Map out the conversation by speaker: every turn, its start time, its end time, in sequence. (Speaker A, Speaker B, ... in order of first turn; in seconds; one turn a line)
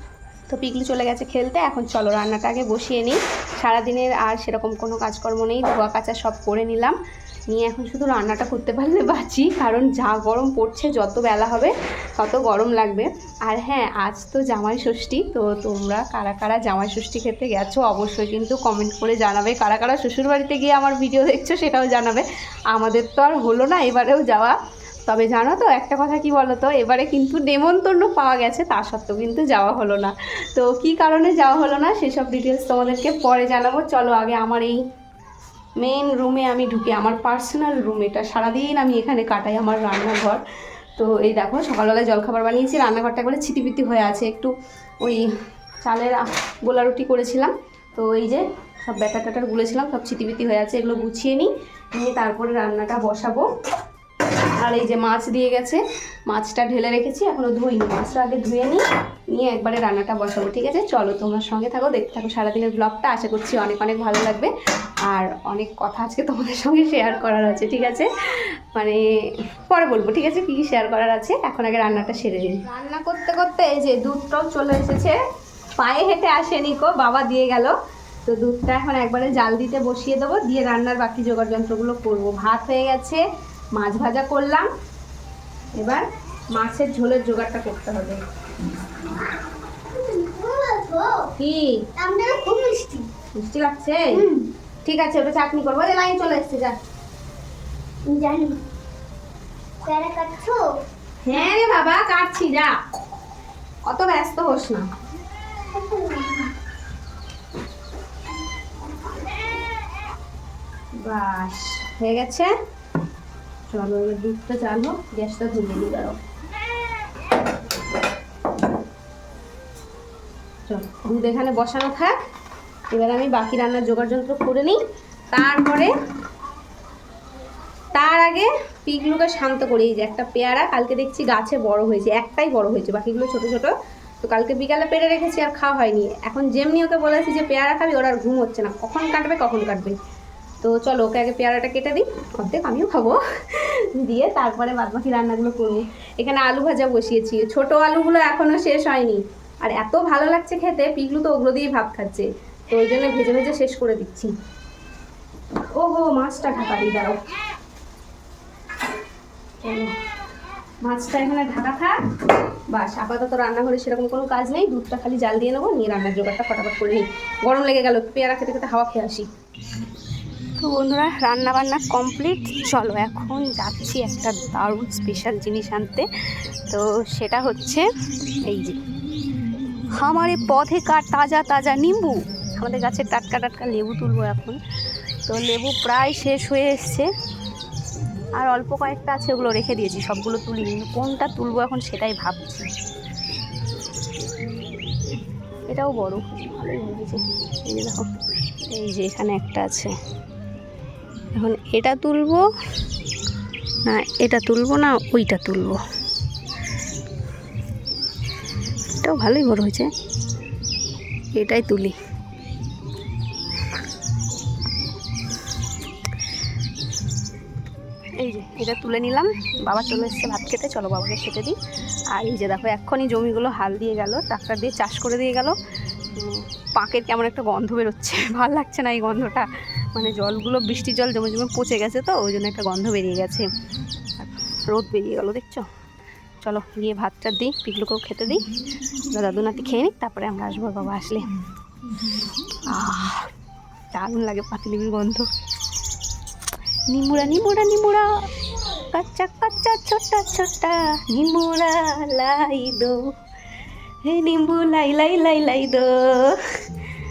Speaker A: 0.5-7.0
Speaker A: 7.5-24.6
Speaker A: 25.1-34.8
Speaker A: 35.8-40.4
Speaker A: 41.0-45.3
Speaker A: 45.8-53.5
Speaker A: 54.6-64.5
Speaker A: 65.0-69.0
Speaker A: 69.7-75.2
Speaker A: 75.8-77.7
Speaker A: 78.2-83.2
Speaker A: 83.7-84.7
Speaker A: 85.7-88.2
Speaker B: 89.9-91.3
Speaker A: 91.4-91.8
Speaker B: 92.0-93.1
Speaker A: 93.3-94.2
Speaker B: 94.1-94.5
Speaker A: 94.8-96.8
Speaker B: 98.0-98.6
Speaker B: 99.8-100.7
Speaker A: 101.2-102.7
Speaker A: 103.8-104.8
Speaker B: 105.7-106.5
Speaker A: 111.0-112.5
Speaker A: 113.7-116.2
Speaker A: 120.7-122.1
Speaker A: 122.9-124.8
Speaker A: 125.3-125.9
Speaker A: 127.9-139.9
Speaker A: 140.6-154.3
Speaker A: 155.7-157.2
Speaker A: 159.6-159.9
Speaker A: 160.8-161.9
Speaker A: 162.7-169.3
Speaker A: 170.6-176.1
Speaker A: 176.7-177.8
Speaker A: 178.4-178.8
Speaker A: 179.9-184.6
Speaker A: 185.2-187.1
Speaker A: 188.4-192.7
Speaker A: 195.7-198.1
Speaker A: 198.7-199.9
Speaker A: 201.4-202.4
Speaker A: 203.8-205.8
Speaker A: 209.0-209.9
Speaker A: 211.3-211.9
Speaker A: 218.2-221.6
Speaker A: 222.1-225.5
Speaker A: 226.2-233.4
Speaker A: 234.2-235.7
Speaker A: 236.4-238.4
Speaker A: 239.1-241.2
Speaker A: 242.7-243.3
Speaker A: 243.9-245.3
Speaker A: 246.9-253.0
Speaker A: 254.0-256.4